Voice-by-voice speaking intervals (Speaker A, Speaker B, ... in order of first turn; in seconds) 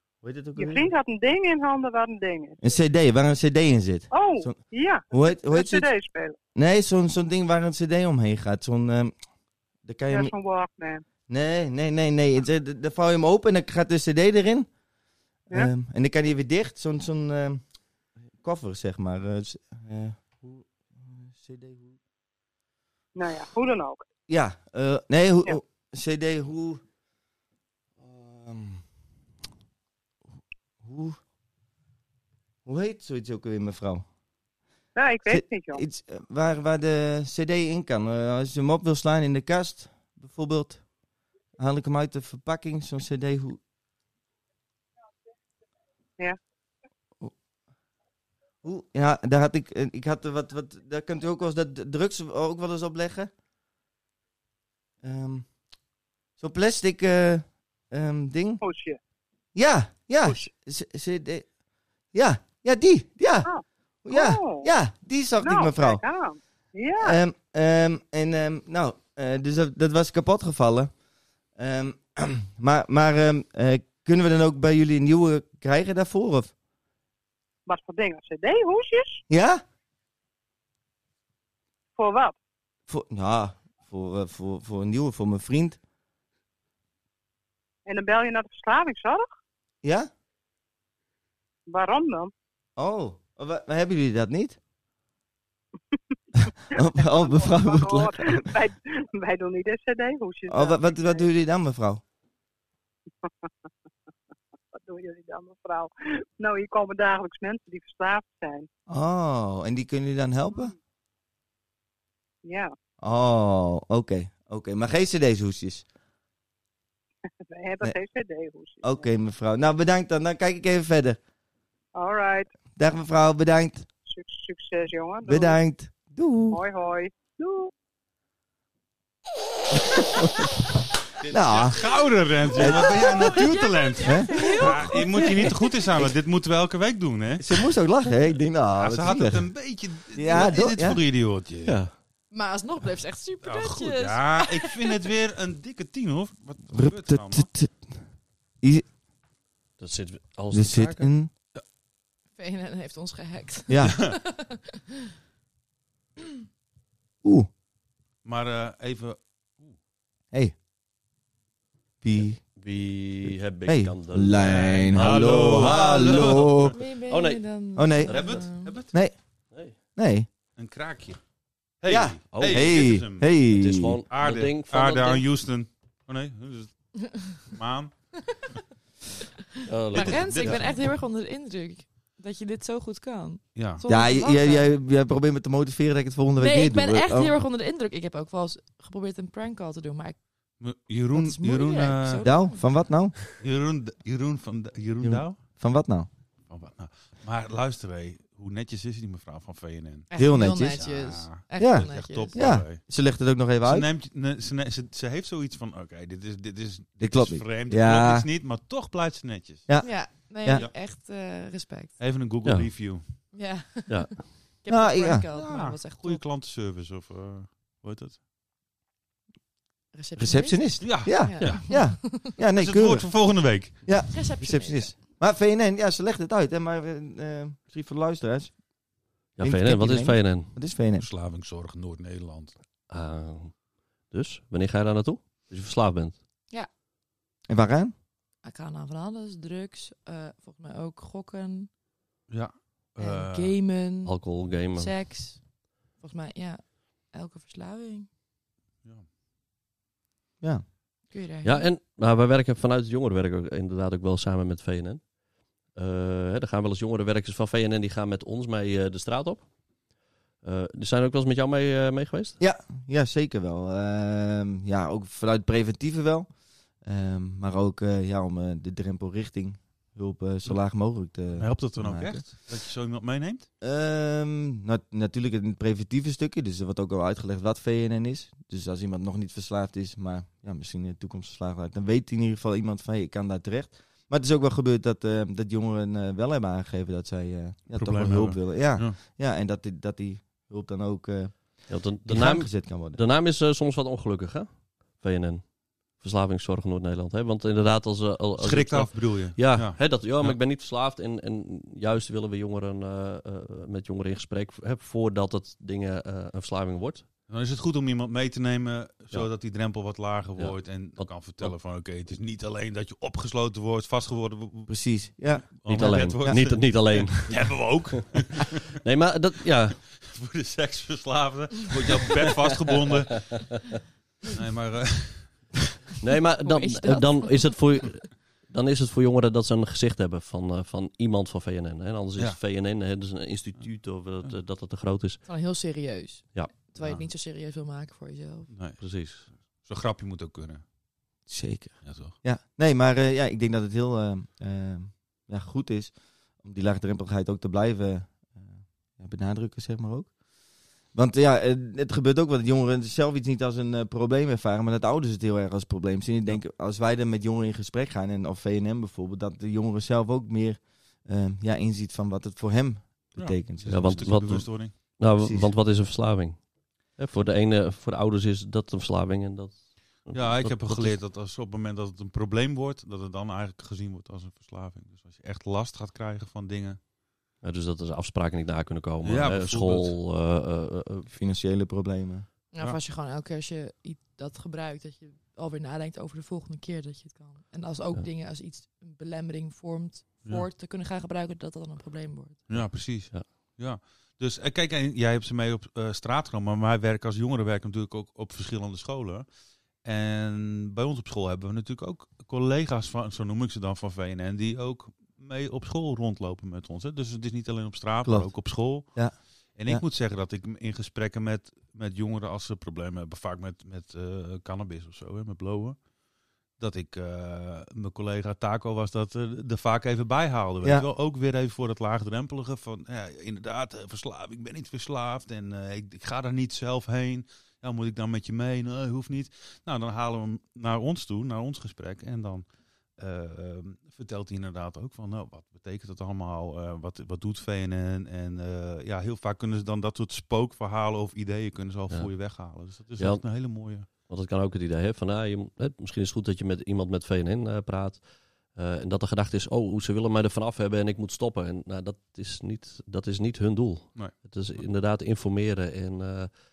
Speaker A: 0.2-0.9, 2.6-5.9, 6.5-9.1, 9.8-10.3, 11.3-14.7, 15.5-17.6, 18.4-22.0, 24.3-26.8, 28.0-28.8, 30.8-31.2, 32.7-34.0, 35.3-40.9, 41.6-43.6, 48.6-53.3, 55.0-55.5, 56.4-58.6, 59.5-61.5, 62.1-63.5, 64.0-66.0, 67.0-70.9, 71.6-76.5, 79.3-79.6, 82.9-85.8, 89.8-90.1, 92.8-94.6, 96.7-98.5, 100.5-102.0, 108.9-110.7, 113.0-115.8, 118.8-121.2, 122.8-123.9, 125.2-126.6, 129.9-130.5, 131.3-131.8, 132.5-133.5, 134.0-134.9, 137.4-141.0, 146.7-148.0, 148.6-148.9, 150.5-151.3, 153.7-154.0, 157.2-157.5, 162.0-162.4, 163.7-166.8, 167.8-169.2, 169.9-170.3, 171.9-174.0, 183.9-187.3, 192.2-193.2, 195.0-196.1, 200.2-200.8, 201.6-203.9, 207.0-208.3, 209.7-210.7, 214.7-215.3, 220.2-228.6, 229.4-231.1, 237.5-237.9, 262.4-272.2, 273.6-293.0, 314.7-315.5, 341.3-350.2, 350.9-365.6, 381.1-382.3, 408.1-409.8
Speaker B: 0.6-2.6, 4.1-6.4, 10.1-11.0, 23.1-24.0, 35.0-35.8, 58.6-59.0, 63.5-64.7, 65.4-67.2, 77.7-79.2, 82.0-82.4, 87.9-89.3, 91.7-92.3, 96.8-101.3, 103.2-103.5, 104.7-108.7, 112.4-112.7, 117.5-119.1, 122.0-122.5, 124.1-125.6, 126.5-127.7, 134.5-134.9
Speaker C: 131.2-137.5, 138.8-141.8, 143.4-147.5, 153.9-154.2, 158.2-159.8, 164.4-166.8, 168.1-168.9, 170.6-171.2, 171.8-173.3, 174.1-177.9, 179.9-180.9, 183.6-183.8, 190.6-192.3, 193.4-195.4, 196.5-200.1, 200.7-202.8, 203.6-209.7, 210.5-210.7, 212.0-213.1, 215.3-218.2, 220.8-224.2, 231.0-232.6, 242.3-243.6, 271.3-273.5, 287.7-289.0, 298.4-300.4, 307.3-318.6, 320.0-323.6, 324.2-325.5, 338.5-340.6, 341.8-342.2, 363.2-364.8, 370.1-376.8, 379.0-380.0, 392.5-399.3, 399.8-415.9, 416.6-443.9
Speaker D: 132.6-135.7, 140.3-140.6, 142.3-145.0, 152.4-154.8, 166.7-168.7, 179.9-184.7, 186.4-190.2, 191.1-192.6, 200.1-202.5, 209.8-212.0, 213.3-216.2, 219.9-222.4, 224.1-225.0, 238.4-241.7, 243.0-248.1, 251.1-251.7, 326.4-327.6, 335.3-338.5, 382.5-392.5
Speaker E: 141.6-141.9, 149.8-151.1, 162.6-165.8, 167.1-167.4, 172.3-172.9, 173.5-175.2, 179.7-180.7, 212.4-213.3, 213.9-214.2, 229.4-230.6, 232.9-233.6, 234.1-236.2, 244.0-244.9, 251.4-255.1, 255.7-259.5, 260.4-262.4, 291.7-307.1, 310.4-311.6, 315.7-318.2, 318.8-319.8, 326.0-335.3, 338.8-339.3, 363.7-371.0, 377.4-381.1, 392.5-393.3, 443.0-456.3